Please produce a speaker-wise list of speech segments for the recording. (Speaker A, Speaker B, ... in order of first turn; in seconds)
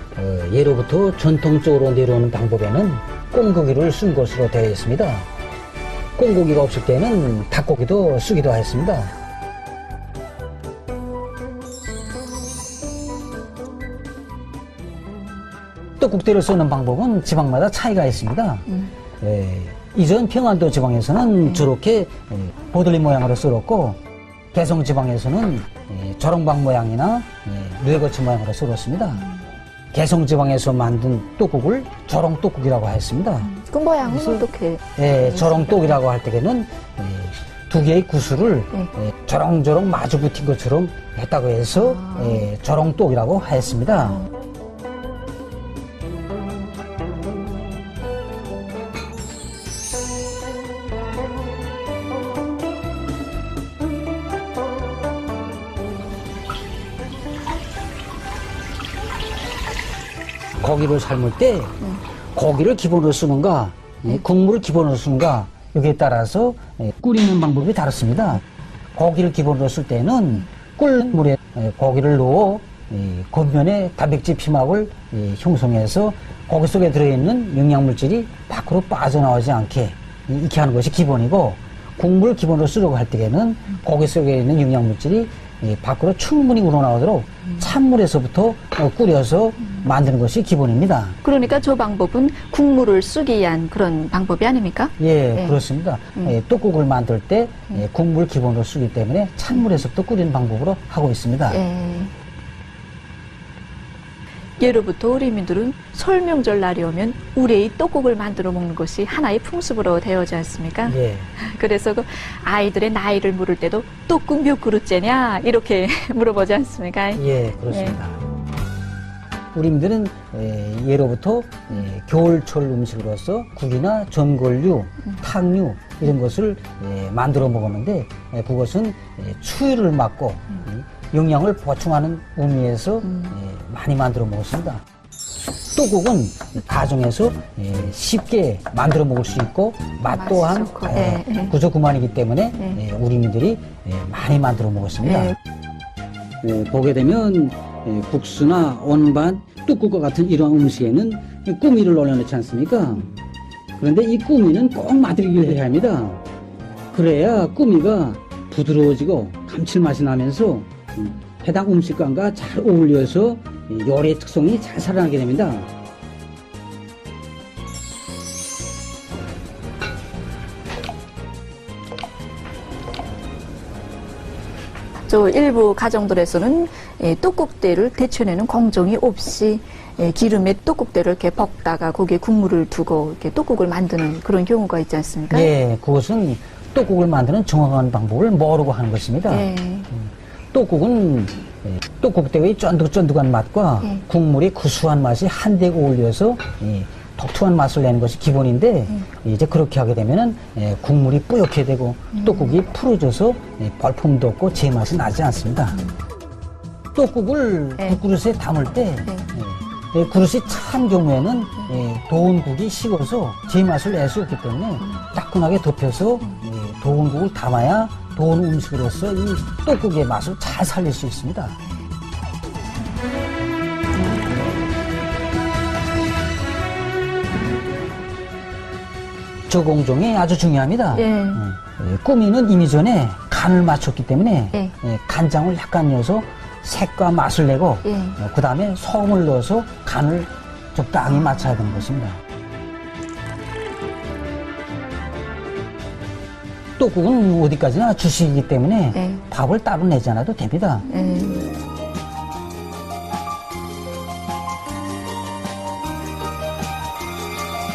Speaker A: 0.1-5.3, 6.2-9.1, 16.0-24.0, 24.5-29.2, 29.9-33.5, 34.0-34.4, 35.0-44.2, 60.6-68.4, 69.0-91.2, 95.0-101.6, 110.8-111.3, 117.1-118.2, 119.5-134.8, 135.7-145.3, 146.4-153.1, 153.8-156.2, 156.9-165.7, 185.3-205.8, 206.9-221.6, 229.5-242.2, 246.8-250.9
Speaker B: 33.4-36.0, 41.8-42.5, 91.2-95.6, 101.5-102.1, 104.6-118.0, 133.1-133.3, 140.1-141.5, 145.0-145.3, 175.1-185.5, 189.3-189.9, 202.1-202.5, 230.9-231.4, 237.8-238.2, 241.3-241.7, 248.9-249.2, 250.9-251.4